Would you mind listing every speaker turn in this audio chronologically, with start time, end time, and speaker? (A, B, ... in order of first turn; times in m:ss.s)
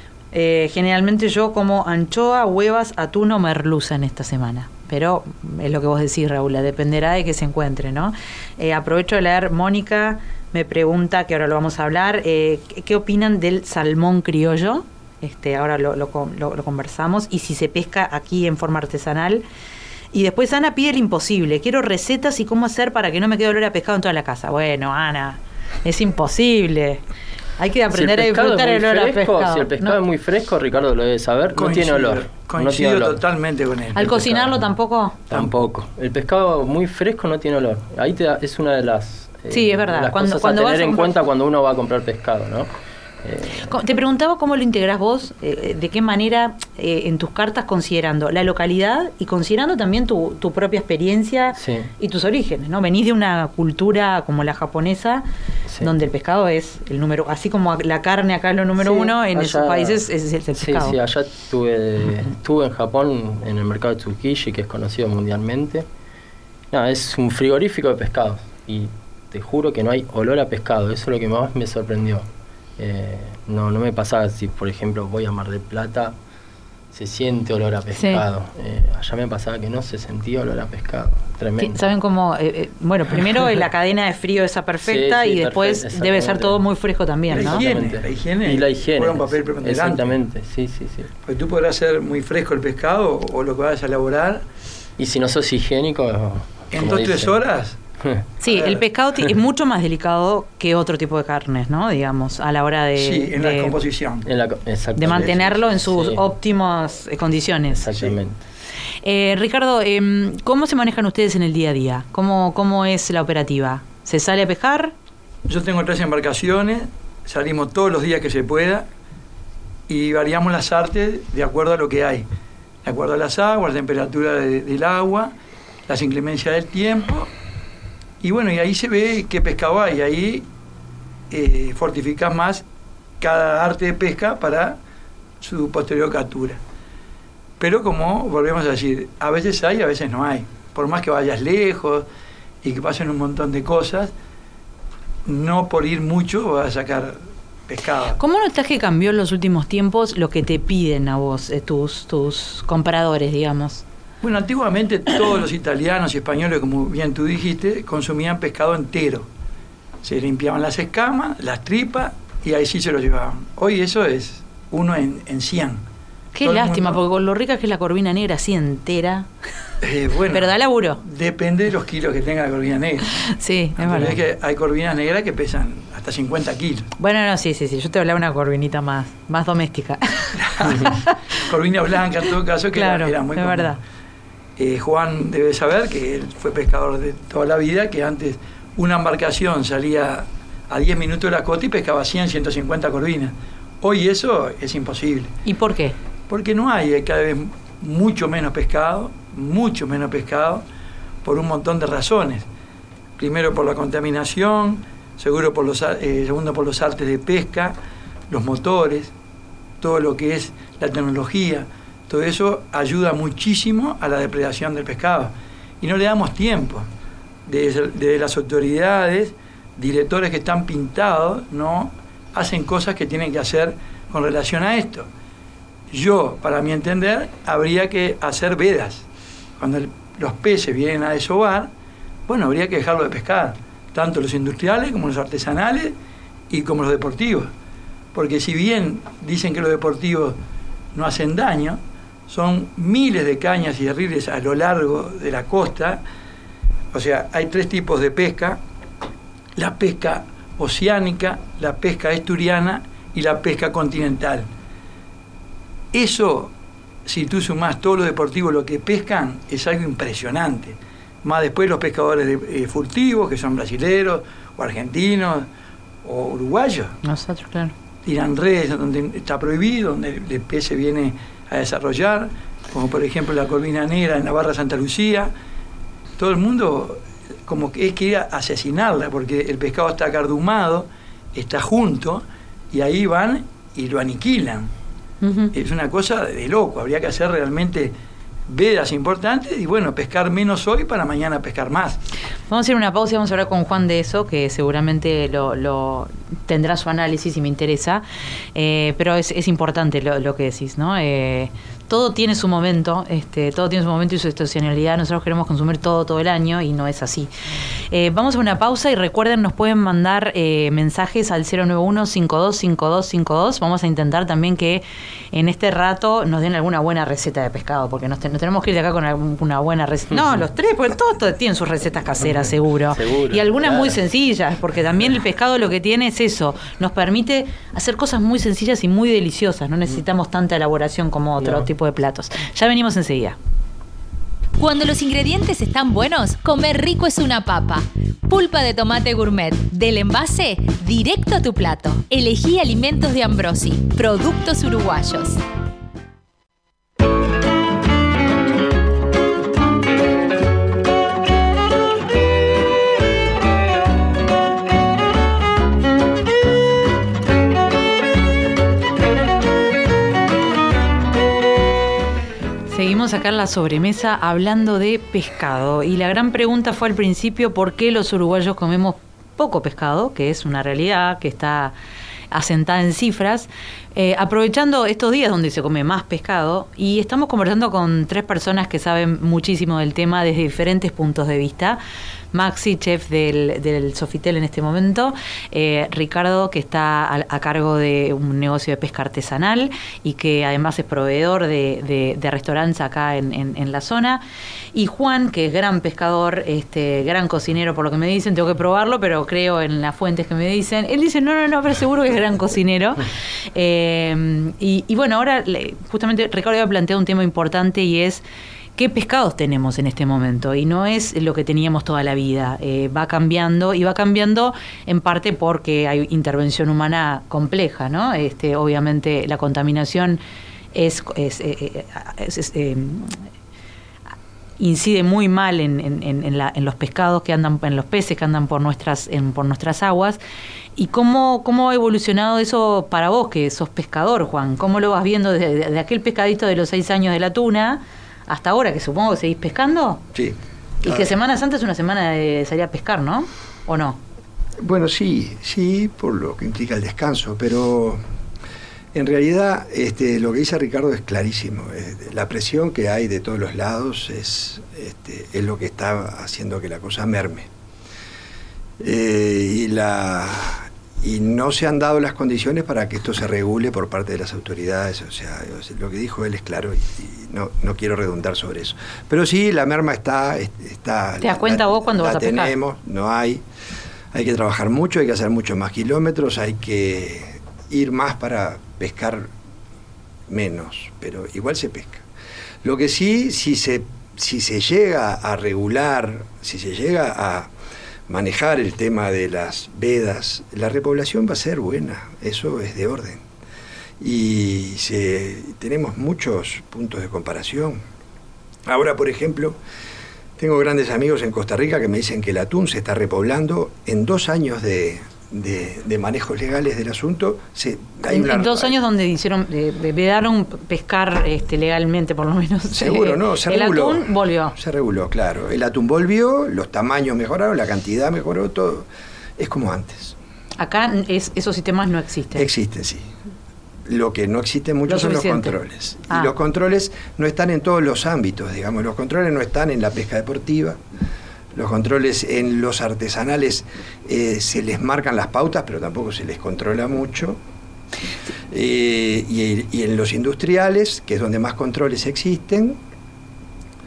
0:00.3-0:19.4 A
0:20.1-0:27.0 A
0:27.6-0:30.0 A
0:27.9-0:33.2 B
0:31.6-0:34.2 C
0:34.0-0:35.3 A
0:34.0-0:34.7 B
0:35.3-0:42.7 B
0:39.5-0:41.1 A
0:43.2-0:43.7 B
0:43.6-0:55.2 A
0:51.6-0:51.9 B
0:55.8-1:01.0 A
0:58.8-1:00.0 B
1:00.6-1:05.8 B
1:06.7-1:12.2 B
1:12.8-1:16.1 B
1:16.9-1:21.8 B
1:18.0-1:18.2 A
1:21.6-1:27.6 A
1:24.8-1:26.6 B
1:27.3-1:31.1 B
1:27.3-1:30.1 C
1:31.2-1:34.4 C
1:35.0-1:37.4 B
1:36.7-1:37.8 C
1:38.0-1:38.3 B
1:38.4-1:43.8 A
1:38.5-1:38.8 C
1:43.0-1:44.2 C
1:44.2-1:46.2 B
1:45.0-1:48.0 A
1:47.7-1:48.4 B
1:49.0-1:54.9 A
1:55.5-1:58.9 C
1:59.9-2:02.2 C
2:02.8-2:05.3 C
2:05.9-2:07.3 C
2:08.2-2:10.4 C
2:11.3-2:12.6 C
2:13.2-2:14.8 C
2:15.4-2:16.6 C
2:17.6-2:22.0 C
2:22.6-2:24.1 C
2:25.2-2:28.2 C
2:28.2-2:33.8 A
2:34.2-2:39.3 C
2:40.0-2:45.8 C
2:46.3-2:49.3 A
2:46.4-2:47.0 C
2:49.8-2:53.1 C
2:50.3-2:51.0 A
2:53.2-2:54.2 A
2:53.8-2:56.9 C
2:57.0-3:01.1 A
3:00.4-3:03.8 C
3:02.7-3:03.8 A
3:04.6-3:15.4 C
3:15.4-3:15.9 A
3:16.3-3:20.6 C
3:21.2-3:22.5 C
3:23.2-3:27.8 C
3:28.3-3:29.1 C
3:29.8-3:36.9 C
3:37.4-3:45.1 C
3:45.9-3:49.0 C
3:49.6-3:51.7 C
3:52.3-3:55.9 C
3:56.5-3:57.5 C
3:58.1-4:00.4 C
4:00.9-4:06.0 C
4:06.9-4:08.6 C
4:09.6-4:14.5 C
4:15.9-4:16.5 C
4:17.0-4:25.5 C
4:26.0-4:26.9 C
4:27.0-4:27.7 A
4:28.0-4:35.3 C
4:36.2-4:44.7 C
4:45.2-4:45.5 A
4:45.5-4:47.9 C
4:48.5-4:52.0 C
4:52.5-5:07.3 A
5:07.9-5:33.4 A
5:22.9-5:24.0 B
5:31.4-5:31.7 B
5:34.6-5:45.4 D
6:02.7-6:11.7 A
6:12.3-6:21.8 A
6:22.3-6:34.2 A
6:34.7-6:48.2 A
6:48.8-7:00.2 A
7:00.7-7:03.2 A
7:04.6-7:10.2 A
7:10.8-7:20.0 A
7:20.1-7:21.1 E
7:20.8-7:24.0 A
7:24.6-7:28.0 E
7:28.9-7:37.5 E
7:38.8-7:53.4 E
7:51.2-7:52.5 A
7:54.1-7:59.3 E
8:00.3-8:02.0 E
8:02.6-8:07.5 E
8:08.1-8:13.2 E
8:14.0-8:17.8 E
8:18.7-8:19.6 E
8:20.4-8:28.7 E
8:28.1-8:34.5 A
8:32.7-8:40.2 E
8:40.6-8:42.5 A
8:42.3-8:43.1 E
8:43.9-8:50.8 E
8:44.9-8:45.5 A
8:51.5-8:57.4 E
8:58.5-9:02.8 E